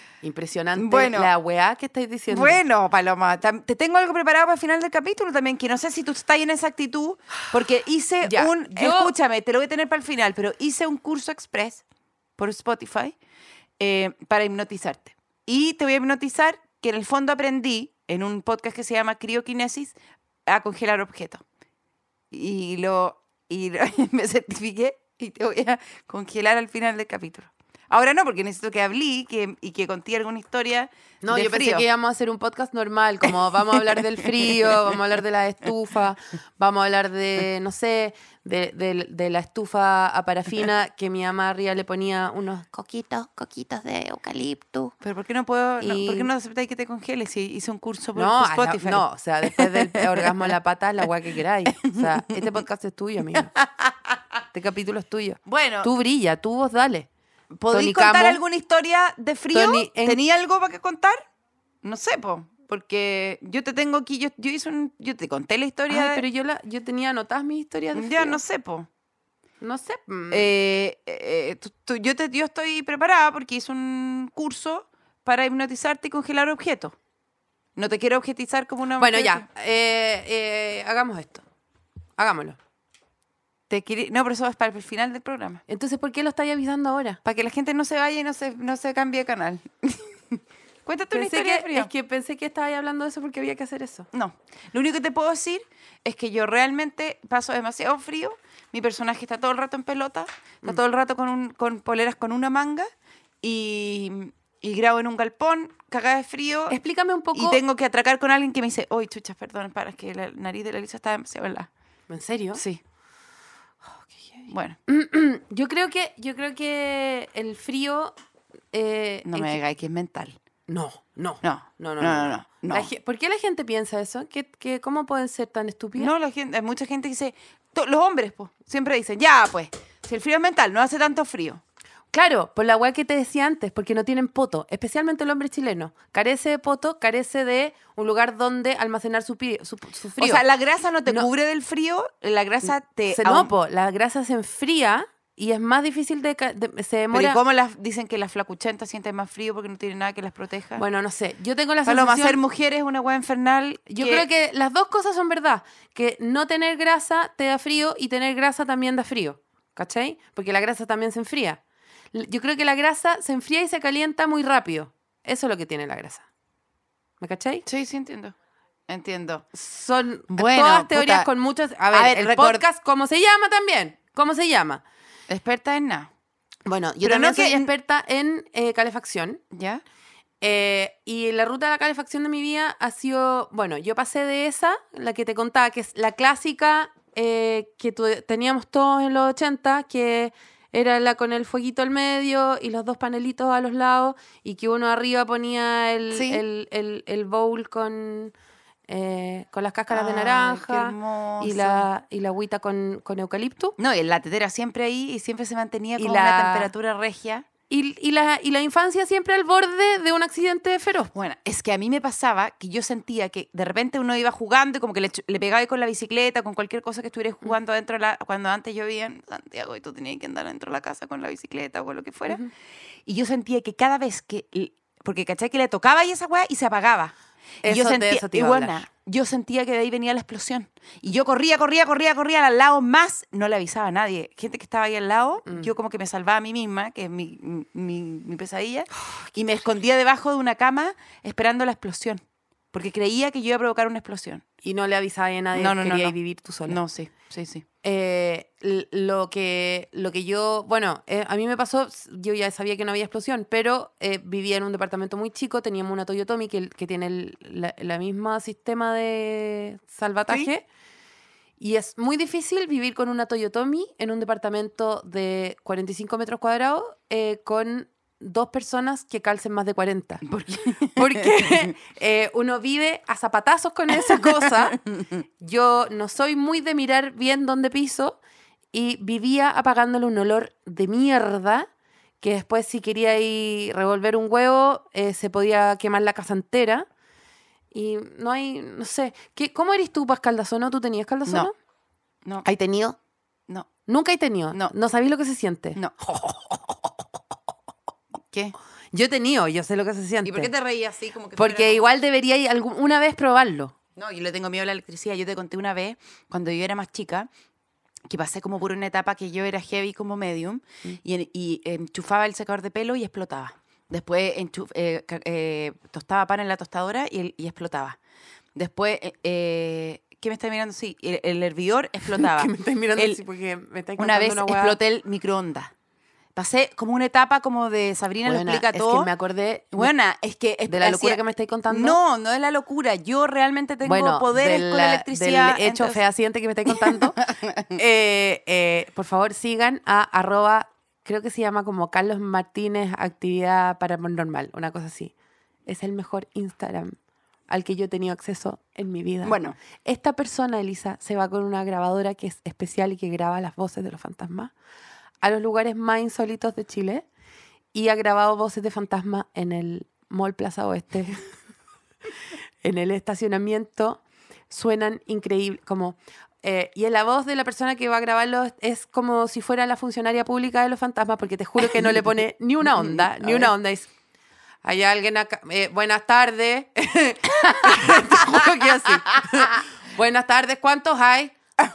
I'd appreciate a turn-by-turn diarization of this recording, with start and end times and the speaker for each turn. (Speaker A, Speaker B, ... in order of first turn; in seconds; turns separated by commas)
Speaker A: 0.2-2.6, Speaker B: 0.8-1.3, Speaker B: 2.3-11.8, Speaker A: 8.2-9.1, Speaker B: 12.4-13.2, Speaker B: 13.8-21.4, Speaker B: 22.3-31.8, Speaker A: 31.2-44.9, Speaker B: 33.8-34.9, Speaker B: 45.0-50.5, Speaker A: 45.8-46.3, Speaker A: 48.1-53.5, Speaker B: 51.8-52.5, Speaker B: 53.3-54.2, Speaker A: 54.5-57.1, Speaker B: 55.5-55.9, Speaker B: 57.5-61.2, Speaker A: 57.7-58.4, Speaker A: 59.5-60.2, Speaker B: 61.8-66.2, Speaker A: 65.9-68.4, Speaker B: 67.9-68.9, Speaker A: 69.6-70.5, Speaker B: 70.3-76.9, Speaker B: 77.8-79.5, Speaker A: 79.0-81.4, Speaker A: 82.2-82.6, Speaker B: 83.7-85.6, Speaker A: 85.7-87.2, Speaker B: 87.2-91.9, Speaker A: 91.1-94.1, Speaker B: 94.1-102.9, Speaker B: 103.4-106.8, Speaker A: 106.7-107.6, Speaker B: 107.3-111.7, Speaker A: 112.1-112.6, Speaker B: 112.5-112.8, Speaker A: 114.0-118.1, Speaker B: 114.5-114.8, Speaker A: 118.7-119.6, Speaker B: 119.2-120.3, Speaker A: 120.7-126.1, Speaker B: 121.4-122.9, Speaker B: 126.0-131.6, Speaker A: 132.1-140.4, Speaker B: 140.2-143.5, Speaker A: 143.1-147.4, Speaker B: 147.1-150.8, Speaker A: 150.8-152.4, Speaker B: 151.8-154.3, Speaker A: 153.9-161.6, Speaker A: 162.1-166.2, Speaker A: 167.2-167.6, Speaker B: 167.7-168.3, Speaker B: 168.9-169.4, Speaker A: 169.5-174.8, Speaker B: 170.3-171.3, Speaker B: 171.9-172.6, Speaker B: 175.3-176.1, Speaker A: 176.7-179.4, Speaker B: 177.0-177.7, Speaker B: 179.5-179.8, Speaker A: 180.4-198.3, Speaker B: 196.1-196.4, Speaker A: 198.9-203.8, Speaker B: 199.9-201.9, Speaker B: 203.8-207.4, Speaker A: 206.0-206.7, Speaker A: 207.7-211.1, Speaker B: 211.1-222.4, Speaker B: 223.1-227.1, Speaker A: 227.6-228.8, Speaker B: 227.6-242.2, Speaker B: 242.7-244.4, Speaker A: 244.6-246.8, Speaker B: 245.5-247.6, Speaker A: 247.8-260.6, Speaker A: 261.6-270.2, Speaker B: 270.2-271.7, Speaker A: 270.9-274.8, Speaker B: 274.1-275.2, Speaker A: 275.4-278.2, Speaker A: 278.7-281.7, Speaker A: 282.2-286.9, Speaker A: 287.7-291.5, Speaker B: 291.3-291.5, Speaker A: 292.4-292.9, Speaker A: 293.9-296.9, Speaker B: 298.2-298.5, Speaker A: 298.9-300.5, Speaker B: 300.2-302.0, Speaker A: 301.4-303.7, Speaker B: 303.9-307.3, Speaker B: 308.1-318.0, Speaker B: 318.5-323.2, Speaker A: 322.1-324.8, Speaker B: 324.0-325.7, Speaker B: 326.3-329.1, Speaker A: 328.2-329.9, Speaker B: 329.7-336.0, Speaker A: 330.7-332.0, Speaker A: 333.8-337.2, Speaker B: 336.7-337.8, Speaker A: 337.7-345.1, Speaker A: 345.6-347.0, Speaker A: 347.5-354.5, Speaker B: 349.2-349.6, Speaker A: 355.2-357.0, Speaker A: 357.7-361.2, Speaker A: 362.6-373.9, Speaker B: 371.7-372.0, Speaker B: 372.6-373.5, Speaker A: 374.6-381.3, Speaker B: 377.5-378.4